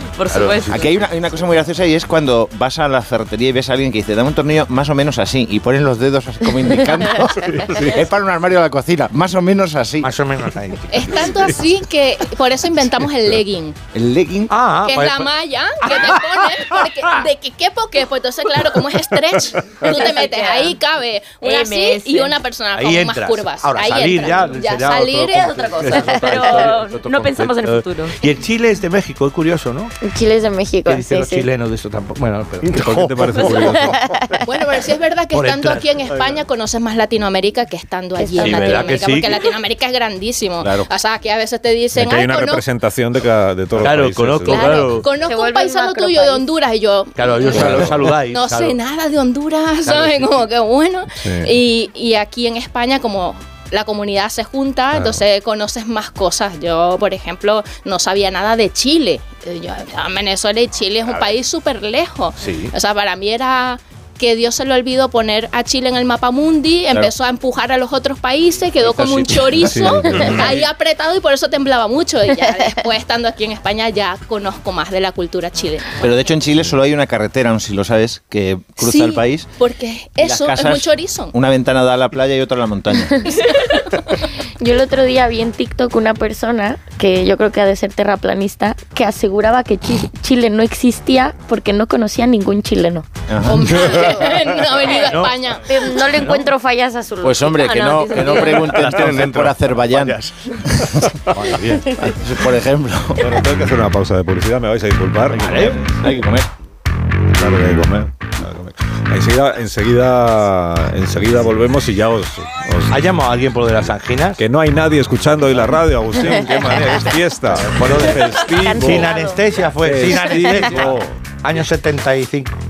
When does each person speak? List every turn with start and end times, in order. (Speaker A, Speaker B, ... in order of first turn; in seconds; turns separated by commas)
Speaker A: 0.2-0.9, Speaker B: 0.3-0.7, Speaker C: 0.7-10.1, Speaker B: 7.4-8.0, Speaker B: 10.0-11.3, Speaker D: 10.9-13.8, Speaker C: 13.9-14.5, Speaker B: 14.5-15.3, Speaker D: 14.8-26.4, Speaker B: 15.8-16.8, Speaker A: 19.9-20.8, Speaker A: 21.4-22.4, Speaker B: 22.7-29.9, Speaker A: 25.3-28.1, Speaker E: 30.0-31.5, Speaker B: 30.9-33.9, Speaker F: 32.6-34.0, Speaker E: 33.8-34.4, Speaker D: 34.5-42.6, Speaker B: 35.3-36.4, Speaker E: 38.2-38.9, Speaker C: 38.4-38.9, Speaker B: 38.4-39.4, Speaker C: 40.6-40.9, Speaker F: 42.0-44.9, Speaker B: 43.8-45.0, Speaker D: 44.5-76.0, Speaker E: 45.2-46.5, Speaker B: 47.2-48.8, Speaker F: 47.5-47.9, Speaker B: 49.9-50.4, Speaker F: 51.2-51.5, Speaker F: 54.9-55.2, Speaker B: 62.4-62.7, Speaker F: 69.6-70.5, Speaker B: 70.2-70.6, Speaker C: 76.0-79.5, Speaker D: 78.8-81.3, Speaker C: 80.2-83.1, Speaker E: 84.6-93.1, Speaker C: 93.3-93.7, Speaker D: 93.4-95.7, Speaker E: 94.1-94.3, Speaker B: 95.0-95.4, Speaker E: 95.7-97.8, Speaker B: 96.2-96.5, Speaker C: 97.2-100.2, Speaker A: 97.6-98.8, Speaker B: 98.7-100.3, Speaker B: 101.3-102.1, Speaker C: 101.9-103.3, Speaker F: 103.2-105.8, Speaker B: 105.3-105.8, Speaker C: 105.5-106.5, Speaker F: 107.3-113.1, Speaker B: 112.9-114.4, Speaker F: 114.4-119.1, Speaker B: 117.6-122.5, Speaker E: 118.3-119.5, Speaker F: 119.8-121.2